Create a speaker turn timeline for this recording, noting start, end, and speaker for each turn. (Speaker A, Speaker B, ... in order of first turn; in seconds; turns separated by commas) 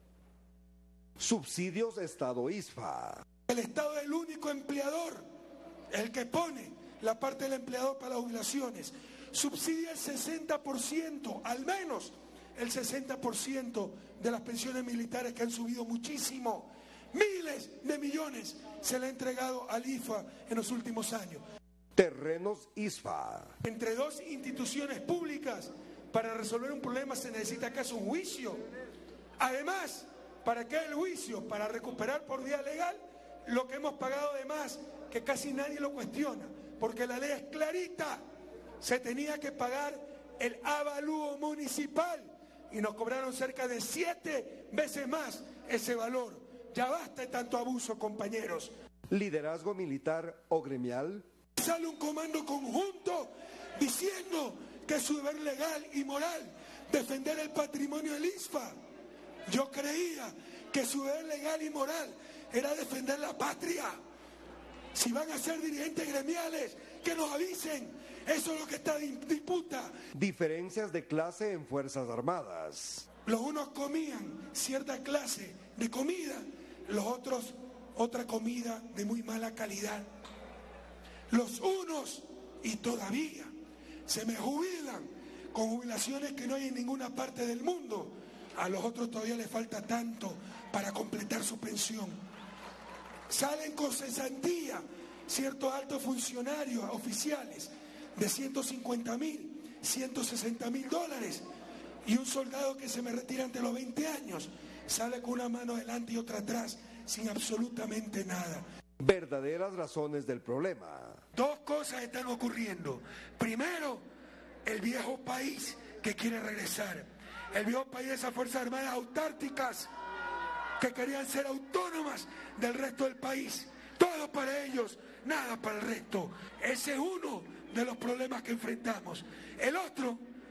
Speaker A: 1.2-3.2, Speaker B: 3.5-5.2, Speaker B: 5.9-21.4, Speaker A: 21.9-23.5, Speaker B: 23.6-28.6, Speaker B: 29.4-38.2, Speaker B: 38.8-48.7, Speaker A: 49.1-51.2, Speaker B: 51.6-58.7, Speaker B: 59.5-64.0, Speaker B: 64.9-69.9, Speaker A: 70.1-73.1, Speaker B: 73.2-80.1, Speaker B: 81.3-83.5, Speaker B: 84.1-92.2, Speaker B: 93.3-101.4, Speaker B: 102.1-108.6, Speaker A: 109.0-111.2, Speaker B: 111.3-114.0, Speaker B: 114.6-119.9, Speaker B: 120.8-130.2